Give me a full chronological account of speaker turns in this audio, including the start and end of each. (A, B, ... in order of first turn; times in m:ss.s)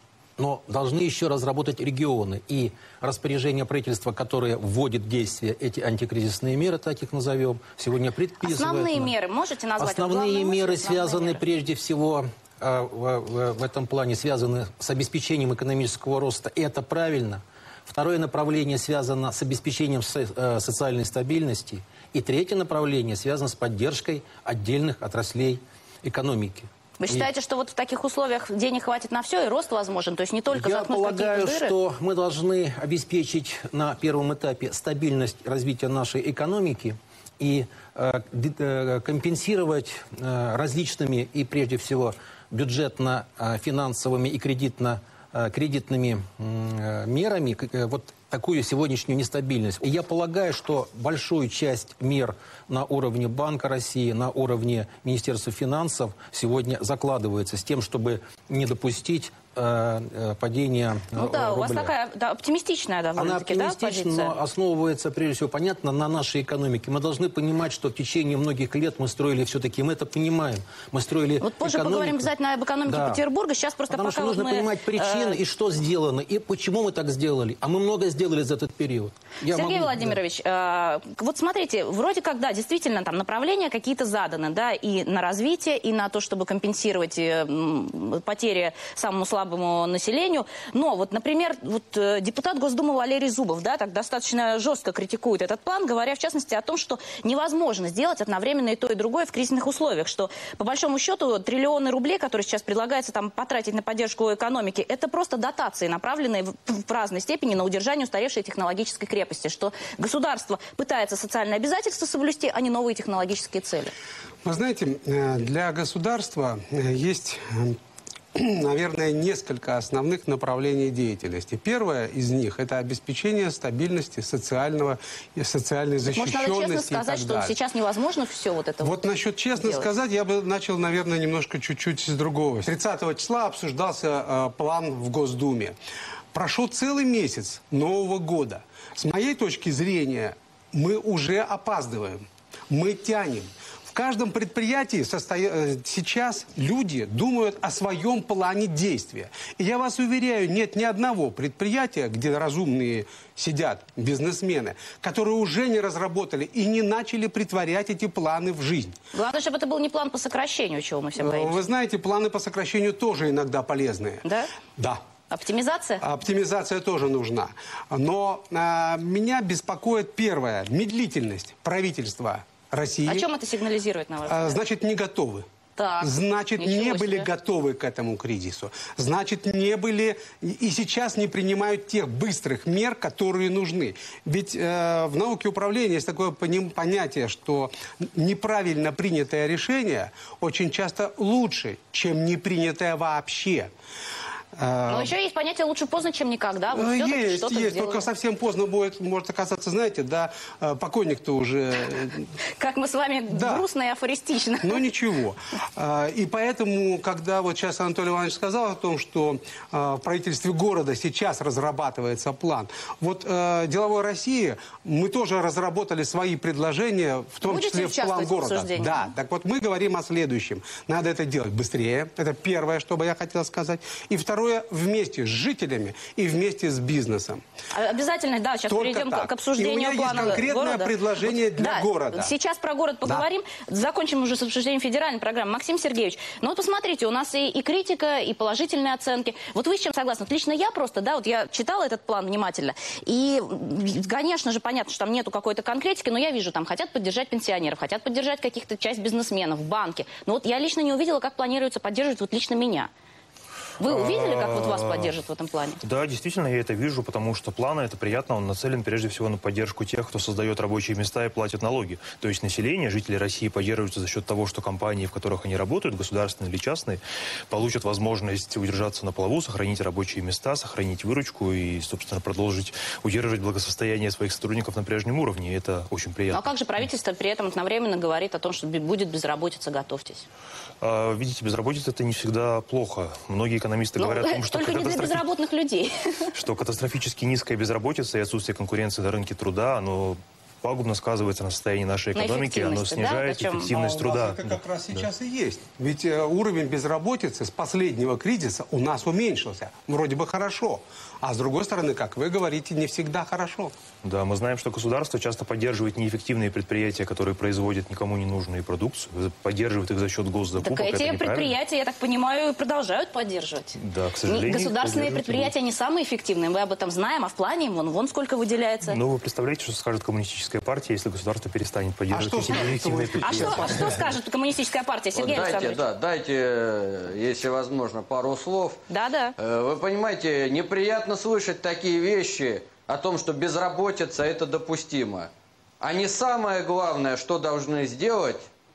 0:00.4-0:09.1 A
0:08.4-0:11.4 B
0:09.8-0:27.3 A
0:27.0-0:31.7 B
0:30.5-1:01.9 A
1:01.2-1:04.4 B
1:03.2-1:12.3 A
1:11.4-1:15.4 B
1:12.8-1:13.2 A
1:13.9-1:20.2 A
1:19.5-1:53.9 B
1:54.4-1:57.8 C
1:58.4-2:07.6 C
2:06.1-2:09.0 B
2:08.8-2:15.8 C
2:09.6-2:09.9 B
2:16.3-2:38.9 C
2:39.1-2:41.6 B
2:41.2-2:44.2 C
2:44.2-2:44.5 B
2:45.3-2:46.0 B
2:46.0-2:53.3 C
2:53.1-2:54.6 B
2:54.3-2:55.4 C
2:55.8-2:57.3 B
2:56.0-3:13.7 C
3:14.6-3:15.1 C
3:14.9-3:18.1 B
3:16.7-3:22.3 C
3:22.6-3:24.8 B
3:23.3-3:23.7 C
3:24.6-3:47.4 C
3:37.4-3:39.1 B
3:47.7-4:12.9 B
3:48.7-3:52.3 C
4:13.8-4:15.8 B
4:13.8-4:15.2 D
4:15.8-4:36.5 D
4:36.3-4:40.3 B
4:40.8-4:45.3 D
4:44.0-4:46.3 B
4:46.3-4:55.1 D
4:52.2-4:53.8 B
4:53.7-5:03.7 C
5:04.0-5:11.6 D
5:10.6-5:19.0 B
5:13.8-5:15.5 D
5:18.9-5:24.0 D
5:22.1-5:24.0 C
5:23.2-5:25.8 B
5:25.2-5:28.8 E
5:28.9-5:29.4 B
5:29.4-5:35.3 E
5:35.8-5:38.5 E